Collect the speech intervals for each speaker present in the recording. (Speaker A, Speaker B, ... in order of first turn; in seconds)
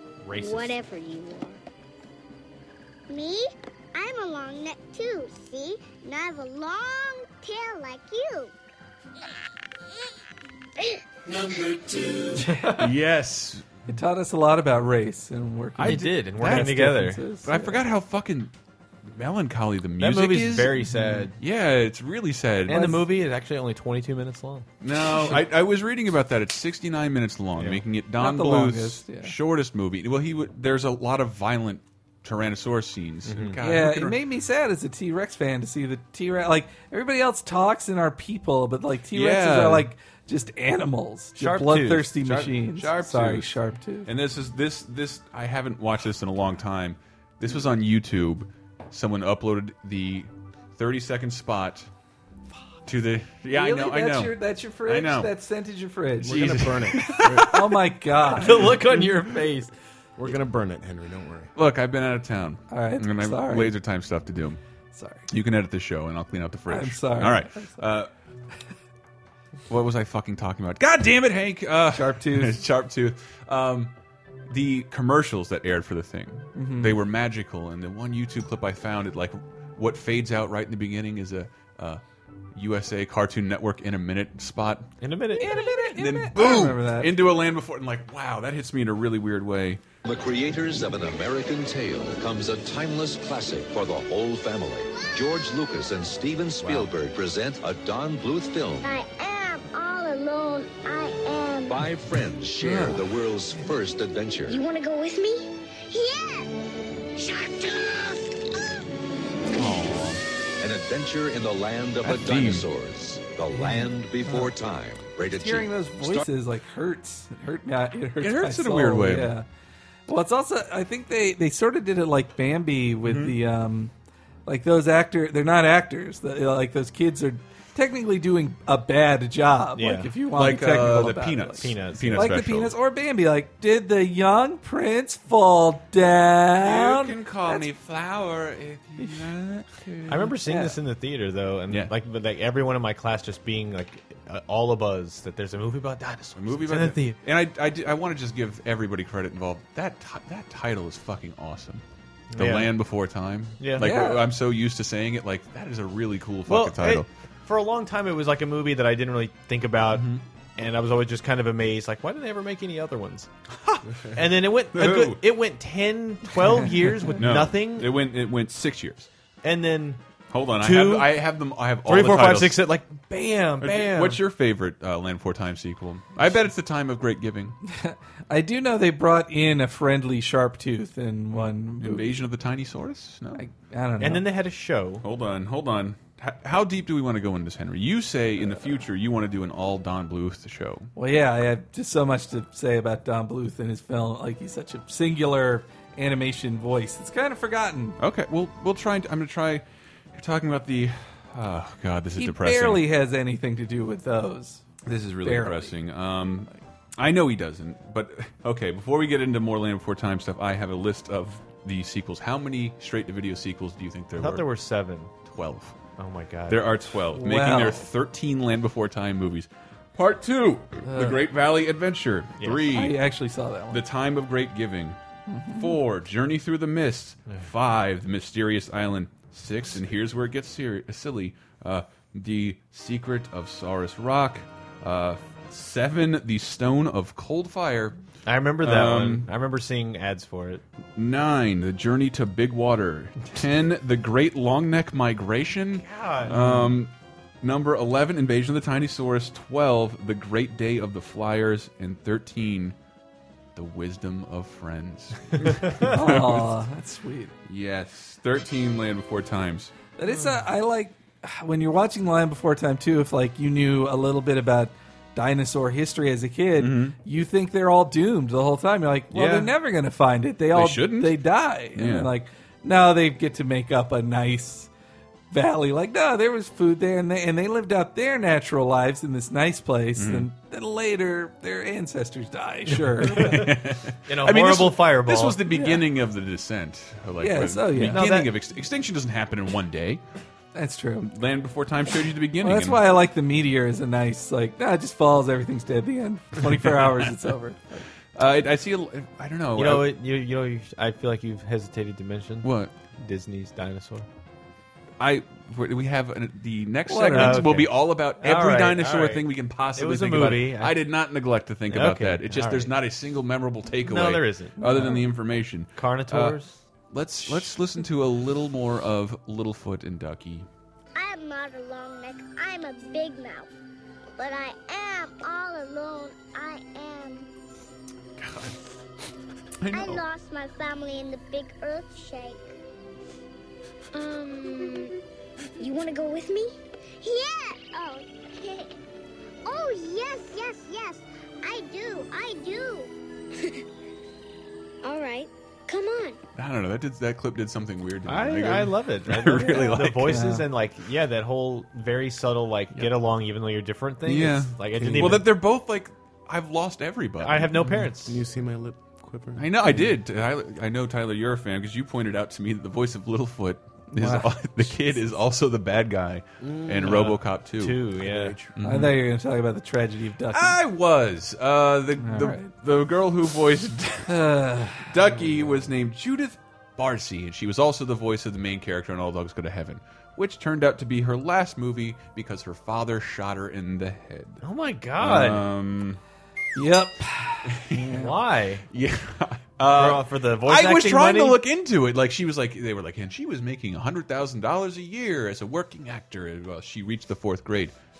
Speaker A: 0.2-0.8, 12.4-12.8, 15.8-17.2, 20.0-21.3, 22.7-24.7, 27.6-27.8, 41.4-42.1, 58.4-59.7, 85.0-85.5, 129.8-130.1, 131.6-132.3, 140.1-147.2, 152.3-152.7, 153.6-153.9, 156.5-163.3, 164.1-167.9, 169.4-170.0, 170.6-171.3, 171.8-174.2, 184.0-185.0, 214.1-215.1, 216.0-216.7, 222.4-222.8, 238.2-240.6, 245.8-246.3, 269.1-269.5, 282.7-283.5, 284.1-285.4, 287.8-288.3, 299.6-304.1, 307.1-310.8, 311.7-312.7, 313.8-314.6, 315.8-316.6, 348.1-355.3, 357.2-358.2, 366.8-368.4, 384.4-385.5, 387.9-388.6, 389.6-391.4
Speaker B: 0.4-1.6, 3.1-8.5, 10.8-11.4, 94.9-95.4, 98.8-101.8, 104.5-106.5, 107.2-108.8, 320.9-323.5, 324.2-327.3, 329.7-332.5, 333.9-335.0, 335.6-338.7, 339.4-343.6, 344.8-346.2
Speaker C: 12.7-13.7, 15.8-18.5, 19.0-22.9, 24.8-34.2, 39.1-39.9, 42.2-51.9, 52.9-55.3, 56.2-57.6, 61.5-64.6, 65.3-68.1, 69.7-73.9, 74.5-82.0, 82.5-84.9, 85.7-89.8, 109.5-110.2, 112.0-112.7, 118.2-119.3, 123.0-123.3, 130.3-132.7, 136.6-140.3, 146.3-151.8, 152.3-157.1, 159.9-160.2, 163.6-163.9, 164.7-165.2, 167.1-169.1, 170.3-172.7, 173.6-177.6, 181.3-183.4, 185.0-190.9, 198.0-202.8, 204.8-214.4, 215.2-215.8, 216.5-223.0, 223.7-225.0, 225.5-238.0, 238.6-239.3, 240.9-252.8, 253.5-256.5, 257.4-259.7, 266.6-266.9, 270.5-271.2, 271.7-272.1, 279.9-280.3, 283.0-290.0, 291.0-292.9, 296.6-297.1, 298.1-299.9, 302.4-302.7, 305.0-316.4, 316.9-320.5, 328.2-328.6, 329.6-330.0, 346.4-350.2, 354.1-357.5, 359.4-367.9, 368.6-369.0, 370.3-374.2, 374.8-384.4, 385.0-386.0, 387.5-388.0, 388.7-397.7
Speaker D: 13.9-17.8, 22.7-23.0, 28.2-29.3, 33.6-44.1, 53.5-56.5, 57.4-58.7, 62.7-63.8, 64.9-65.3, 66.7-67.9, 71.9-72.6, 76.5-77.0, 85.4-87.2, 102.6-103.0, 114.2-114.5, 115.3-119.5, 120.1-123.9, 124.5-137.7, 139.0-139.2, 140.4-140.8, 153.8-154.3, 177.6-182.2, 183.3-184.2, 190.9-198.0, 202.2-204.7, 205.2-205.7, 217.1-217.9, 220.8-221.2, 222.7-223.8, 225.3-225.8, 246.3-246.8, 255.8-257.3, 260.0-274.7, 275.3-283.5, 285.5-285.9, 287.2-288.1, 290.5-291.1, 292.4-297.9, 306.9-307.5, 314.6-315.0, 349.5-350.4, 357.6-357.9, 363.9-364.9, 368.6-370.6, 372.0-372.5, 374.1-374.9, 386.6-388.1
Speaker E: 56.2-57.6, 60.2-61.5, 96.6-96.9, 354.8-355.3, 358.0-359.9, 366.4-367.1, 368.0-368.5
Speaker F: 90.0-98.9, 101.7-104.6, 110.6-116.2